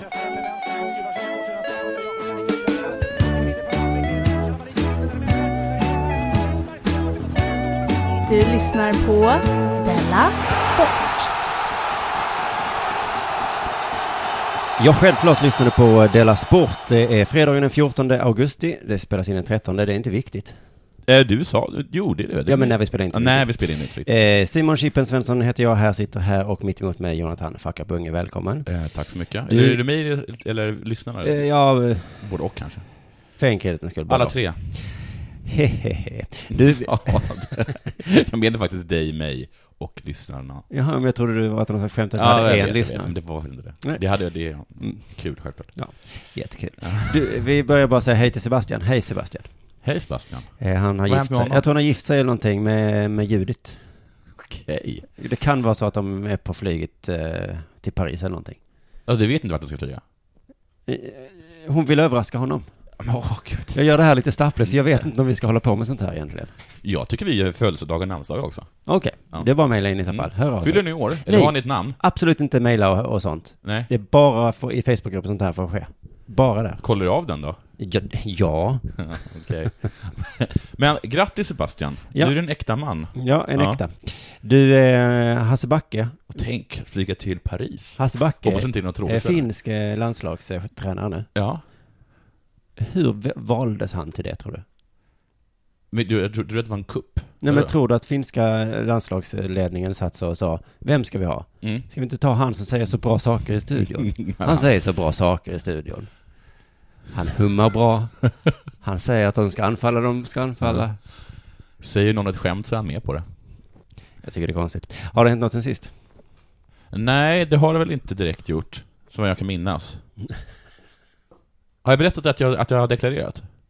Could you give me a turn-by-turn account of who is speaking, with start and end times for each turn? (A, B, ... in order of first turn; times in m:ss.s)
0:08.2-0:11.3 A
0:14.8-0:20.6 B
0:21.1-0:24.1 C
0:22.4-0:28.7 B
0:28.6-0:31.5 C
0:29.5-0:29.8 B
0:31.2-0:32.2 B
0:32.1-0:32.8 C
0:33.4-0:37.6 B
0:34.1-0:34.6 C
0:36.5-0:40.7 C
0:40.7-0:43.1 B
0:42.2-0:45.8 C
0:44.8-0:49.5 B
0:46.8-0:47.2 C
0:49.8-0:51.6 C
0:50.6-0:53.8 B
0:54.6-0:55.0 C
0:55.1-0:58.6 B
0:59.1-1:00.0 C
1:00.9-1:02.6 B
1:03.0-1:03.8 C
1:03.7-1:06.5 B
1:06.8-1:08.7 C
1:08.8-1:16.8 B
1:10.1-1:12.0 C
1:13.6-1:13.9 C
1:16.8-1:17.6 C
1:17.8-1:19.5 B
1:19.0-1:23.8 C
1:23.1-1:26.4 B
1:26.3-1:29.4 C
1:28.0-1:31.3 B
1:31.3-1:31.6 C
1:32.8-1:34.6 B
1:35.9-1:37.7 C
1:37.4-1:46.1 B
1:44.1-1:44.7 C
1:47.1-1:48.2 B
1:48.8-1:51.0 B
1:51.8-1:53.2 C
1:54.2-1:55.9 B
1:56.9-2:00.0 C
2:01.8-2:03.4 C